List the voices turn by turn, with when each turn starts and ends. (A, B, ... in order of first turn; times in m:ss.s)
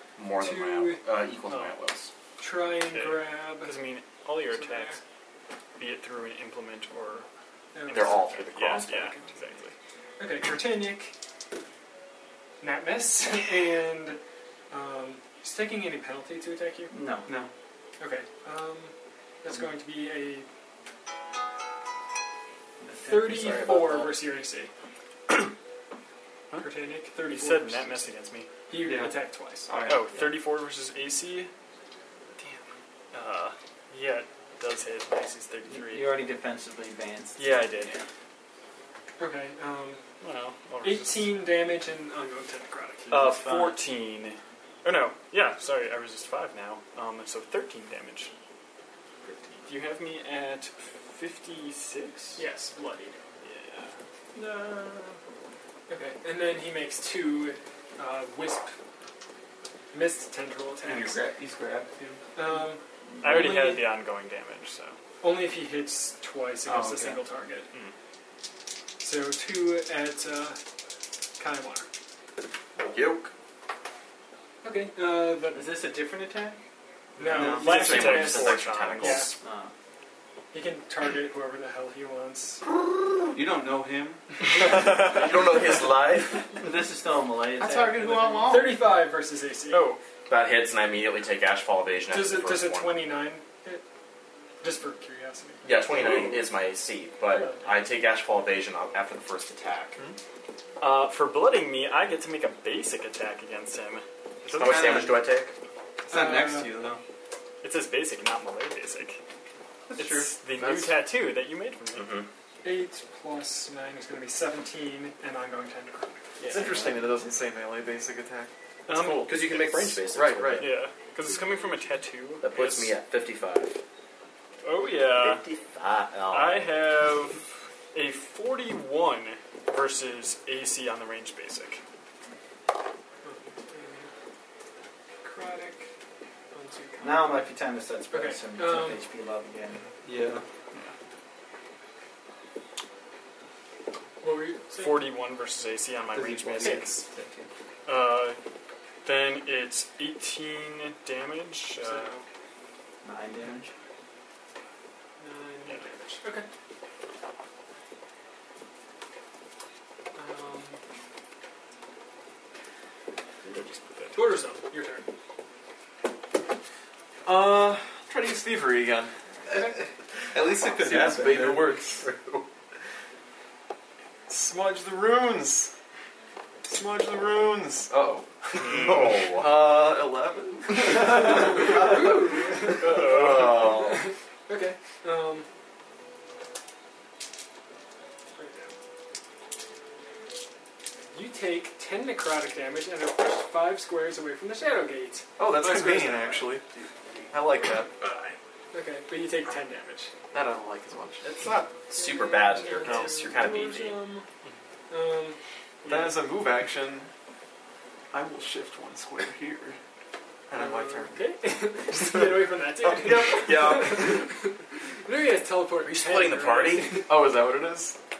0:00.2-0:02.1 A
0:00.4-0:01.7 B
0:02.4-0:03.7 B
0:02.8-0:05.0 C
0:04.5-0:05.0 B
0:05.8-0:07.3 C
0:07.7-0:09.6 B
0:07.9-0:09.0 A
0:07.9-0:09.7 C
0:10.2-0:11.1 B
0:12.6-0:14.2 B
0:14.7-0:16.9 B
0:16.9-0:17.2 D
0:18.0-0:20.5 B
0:22.8-0:23.6 D
0:23.0-0:24.7 B
0:23.3-0:24.2 A
0:26.5-0:28.5 C
0:26.6-0:28.1 B
0:28.7-0:29.7 B
0:28.7-0:30.0 E
0:29.8-0:31.5 C
0:33.1-0:36.2 C
0:35.7-0:38.0 D
0:37.4-0:38.0 C
0:39.2-0:40.0 B
0:40.2-0:41.3 C
0:40.8-0:43.4 B
0:43.1-0:48.3 C
0:43.1-0:43.8 D
0:49.6-0:52.4 C
0:52.4-0:53.2 B
0:53.4-0:54.0 C
0:54.4-0:55.1 B
0:55.9-0:58.7 B
0:59.9-1:01.2 B
1:00.8-1:02.2 E
1:02.4-1:03.8 B
1:03.2-1:05.0 C
1:05.2-1:07.7 B
1:06.6-1:07.2 E
1:09.0-1:10.6 B
1:11.4-1:11.8 B
1:12.8-1:13.3 A
1:14.6-1:15.7 B
1:15.5-1:16.6 D
1:17.2-1:19.3 B
1:17.2-1:19.3 C
1:17.2-1:17.8 E
1:17.5-1:19.3 A
1:19.4-1:19.7 D
1:20.5-1:22.6 B
1:23.3-1:24.9 E
1:24.5-1:26.4 A
1:26.6-1:28.8 D
1:27.6-1:28.8 E
1:28.5-1:29.9 B
1:29.7-1:30.0 C
1:30.3-1:33.1 A
1:32.1-1:33.8 B
1:34.6-1:35.6 B
1:35.6-1:40.0 A
1:35.9-1:36.4 C
1:37.3-1:37.6 B
1:40.8-1:45.1 C
1:44.5-1:45.1 E
1:44.5-1:45.5 A
1:46.1-1:47.0 E
1:46.1-1:46.7 B
1:47.6-1:49.2 C
1:49.9-1:50.4 E
1:50.0-1:52.2 C
1:50.5-1:51.0 F
1:51.9-1:52.2 A
1:52.6-1:56.3 B
1:56.4-1:56.7 C
1:56.4-1:59.5 F
1:58.9-2:00.0 C
1:59.2-2:00.7 A
2:00.0-2:00.7 F
2:00.5-2:02.9 C
2:02.4-2:03.8 A
2:04.6-2:05.4 C
2:05.1-2:06.8 A
2:06.3-2:11.8 C
2:13.2-2:14.1 B
2:15.2-2:15.8 B
2:16.5-2:17.6 B
2:17.0-2:19.8 D
2:18.1-2:19.0 B
2:20.0-2:20.4 E
2:24.2-2:25.1 B
2:24.7-2:27.0 C
2:26.1-2:27.5 E
2:26.6-2:26.9 B
2:27.9-2:28.4 C
2:29.0-2:32.1 C
2:31.8-2:32.2 B
2:33.0-2:33.7 D
2:35.2-2:36.4 B
2:40.1-2:40.8 B
2:43.4-2:44.4 C
2:44.1-2:45.0 B
2:47.2-2:49.1 F
2:49.5-2:51.7 E
2:50.7-2:52.0 F
2:54.3-2:55.7 F
2:56.6-3:02.0 F
2:58.6-2:59.6 A
3:01.2-3:05.4 B
3:02.8-3:04.0 A
3:02.8-3:03.6 C
3:02.8-3:03.5 F
3:08.3-3:08.7 B
3:11.1-3:16.6 B
3:15.4-3:16.7 F
3:17.3-3:17.9 F
3:18.0-3:20.1 B
3:20.3-3:21.2 F
3:21.4-3:24.0 A
3:21.9-3:24.2 B
3:22.8-3:23.3 F
3:24.9-3:26.2 B
3:25.8-3:27.1 F
3:28.1-3:29.8 F
3:30.5-3:31.2 F
3:30.5-3:37.2 B
3:31.9-3:32.2 F
3:32.8-3:34.2 F
3:33.6-3:34.1 A
3:35.8-3:37.0 A
3:36.9-3:38.0 F